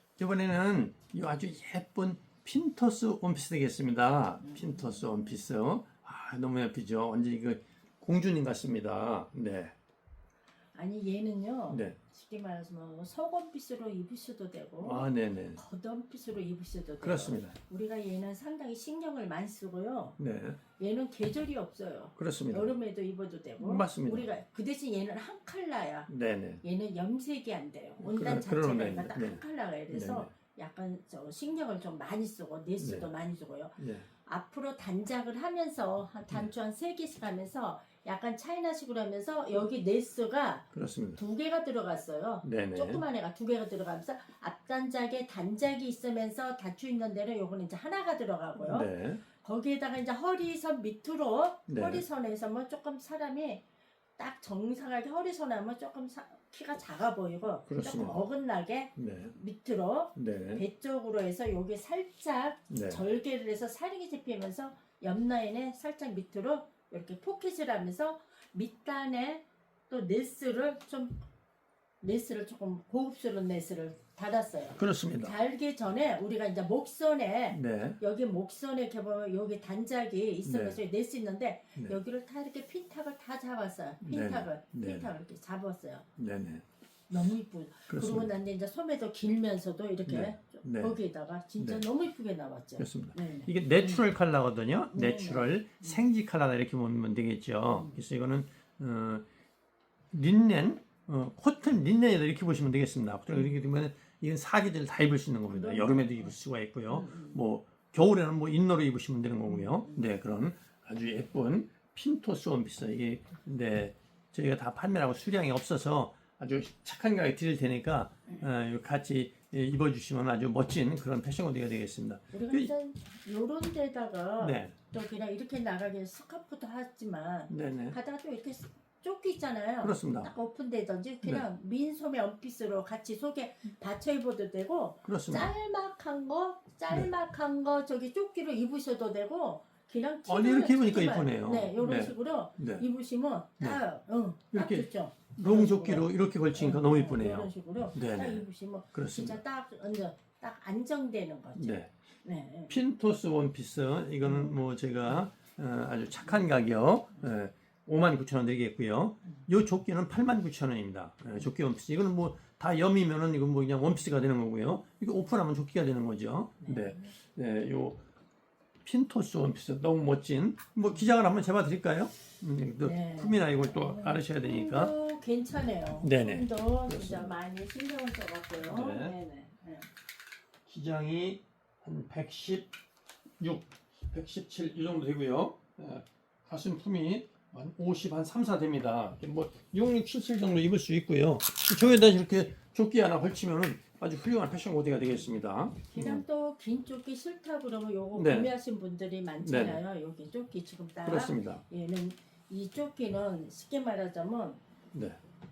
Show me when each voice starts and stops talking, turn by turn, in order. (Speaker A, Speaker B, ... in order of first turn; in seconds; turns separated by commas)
Speaker A: 0.2-9.8, Speaker B: 4.4-5.2, Speaker B: 10.7-20.2, Speaker A: 11.7-12.0, Speaker A: 14.8-15.6, Speaker A: 17.0-17.6, Speaker A: 20.2-20.6, Speaker B: 20.8-26.1, Speaker A: 22.2-22.7, Speaker A: 23.6-24.3, Speaker A: 26.1-26.6, Speaker B: 26.6-53.6, Speaker A: 28.0-30.3, Speaker A: 32.8-33.1, Speaker A: 33.8-34.1, Speaker A: 40.7-41.2, Speaker A: 42.4-43.0, Speaker A: 48.6-49.2, Speaker A: 51.7-52.0, Speaker B: 54.2-71.2, Speaker A: 57.7-58.2, Speaker A: 59.0-59.3, Speaker A: 60.2-60.6, Speaker A: 62.7-63.0, Speaker B: 72.0-86.1, Speaker A: 74.8-75.3, Speaker A: 77.5-78.0, Speaker A: 80.5-80.8, Speaker A: 84.0-85.1, Speaker A: 86.2-86.6, Speaker B: 87.1-94.1, Speaker A: 87.9-88.3, Speaker A: 90.1-91.0, Speaker A: 91.6-91.8, Speaker A: 92.8-99.2, Speaker B: 94.9-96.0, Speaker B: 97.8-98.0, Speaker A: 100.1-122.7, Speaker B: 105.5-106.3, Speaker B: 106.9-107.4, Speaker B: 109.5-110.1, Speaker B: 122.3-152.8, Speaker A: 124.4-124.8, Speaker A: 127.5-128.0, Speaker A: 129.8-130.3, Speaker A: 135.1-135.5, Speaker A: 140.3-142.8, Speaker A: 144.5-149.4, Speaker A: 151.6-151.9, Speaker A: 152.7-168.0, Speaker B: 154.2-154.5, Speaker B: 166.6-167.1, Speaker A: 168.8-174.9, Speaker B: 172.8-179.9, Speaker A: 176.0-177.3, Speaker A: 178.6-179.2, Speaker A: 180.7-182.7, Speaker A: 183.4-196.2, Speaker B: 195.9-204.6, Speaker A: 198.1-198.5, Speaker A: 199.4-199.8, Speaker A: 201.0-201.6, Speaker A: 204.9-205.2